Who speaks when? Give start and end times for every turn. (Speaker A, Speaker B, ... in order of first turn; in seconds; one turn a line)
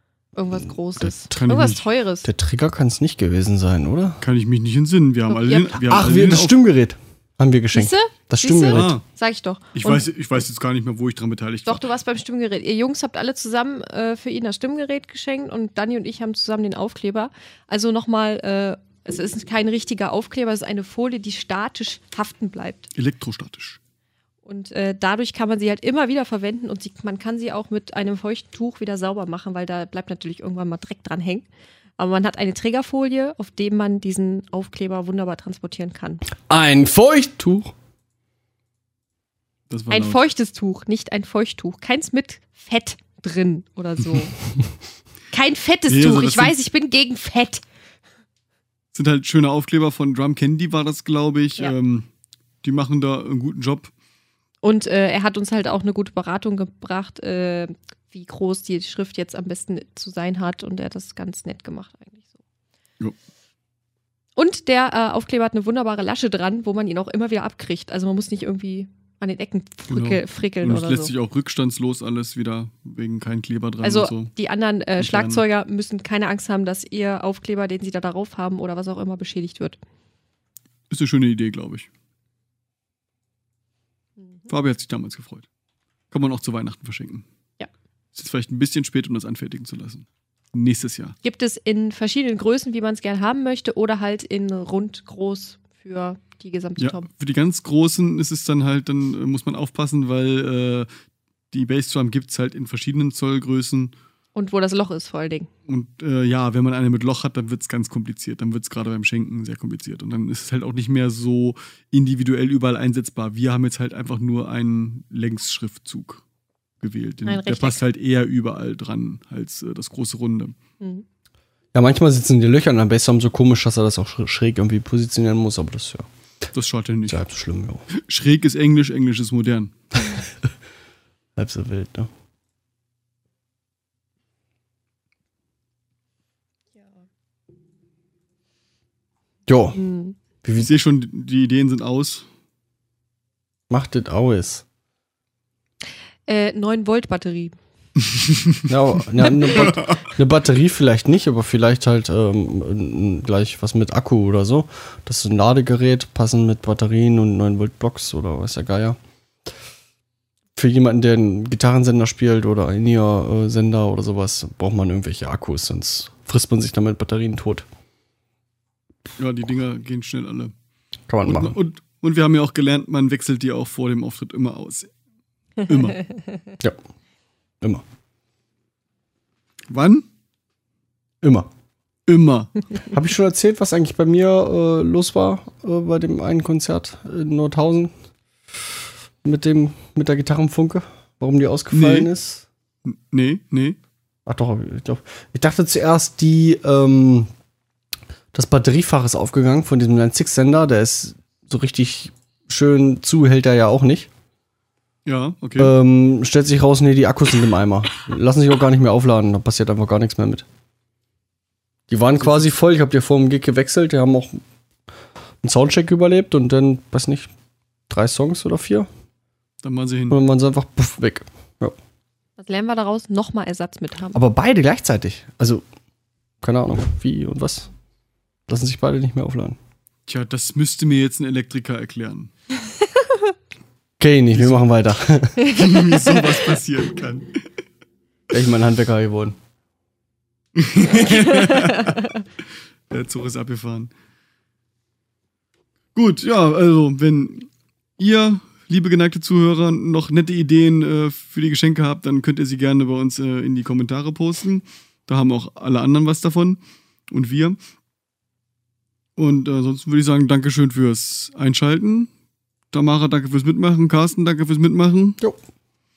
Speaker A: 0.4-2.3
Speaker B: 1.3-1.9
Speaker C: 2.2-4.2
Speaker B: 4.2-6.5
Speaker A: 5.3-5.8
Speaker C: 5.9-9.0
Speaker A: 7.7-10.1
Speaker B: 8.7-9.0
Speaker B: 9.8-11.8
Speaker A: 11.7-22.9
Speaker B: 22.9-23.8
Speaker A: 24.4-31.5
Speaker A: 32.0-36.2
Speaker C: 36.5-37.7
Speaker B: 39.7-40.2
Speaker A: 39.9-44.5
Speaker A: 45.3-47.6
Speaker B: 45.9-46.6
Speaker B: 48.9-52.1
Speaker B: 52.6-53.9
Speaker A: 54.6-62.4
Speaker A: 64.4-71.1
Speaker B: 69.9-74.3
Speaker A: 73.8-79.8
Speaker B: 75.0-75.4
Speaker B: 80.9-81.9
Speaker B: 84.5-85.5
Speaker B: 86.1-87.3
Speaker B: 88.1-91.2
Speaker A: 91.2-97.1
Speaker B: 96.8-100.9
Speaker B: 101.5-103.9
Speaker A: 104.4-105.5
Speaker B: 105.7-116.2
Speaker B: 116.8-120.6
Speaker A: 117.3-117.8
Speaker C: 121.7-126.1
Speaker B: 126.5-127.2
Speaker C: 127.1-127.9
Speaker B: 127.9-129.7
Speaker C: 131.4-132.1
Speaker C: 139.5-139.8
Speaker A: 139.8-140.2
Speaker C: 140.4-140.7
Speaker B: 140.6-142.3
Speaker C: 143.7-144.6
Speaker A: 146.3-147.6
Speaker B: 148.1-148.6
Speaker C: 148.7-159.0
Speaker B: 149.5-149.9
Speaker C: 160.6-167.7
Speaker B: 169.2-170.5
Speaker C: 171.1-171.6
Speaker B: 171.2-174.9
Speaker B: 175.7-176.0
Speaker B: 179.7-180.1
Speaker C: 181.2-181.5
Speaker B: 182.1-182.5
Speaker C: 182.9-187.9
Speaker C: 189.2-192.5
Speaker B: 191.7-192.1
Speaker B: 192.8-193.8
Speaker C: 194.3-197.3
Speaker C: 198.3-204.1
Speaker B: 205.1-205.7
Speaker C: 205.6-210.4
Speaker C: 211.9-214.4
Speaker B: 212.2-212.5
Speaker C: 215.4-217.3
Speaker C: 217.9-218.9
Speaker B: 219.6-220.2
Speaker C: 220.1-221.8
Speaker A: 222.4-224.2
Speaker C: 224.1-225.6
Speaker C: 226.4-227.7
Speaker C: 228.5-229.6
Speaker B: 230.1-232.3
Speaker C: 234.0-235.6
Speaker B: 234.3-234.6
Speaker A: 235.4-236.4
Speaker B: 235.6-237.4
Speaker C: 238.3-239.4
Speaker B: 240.6-242.0
Speaker B: 242.9-243.9
Speaker B: 245.9-257.6
Speaker B: 259.2-262.1
Speaker B: 262.7-265.2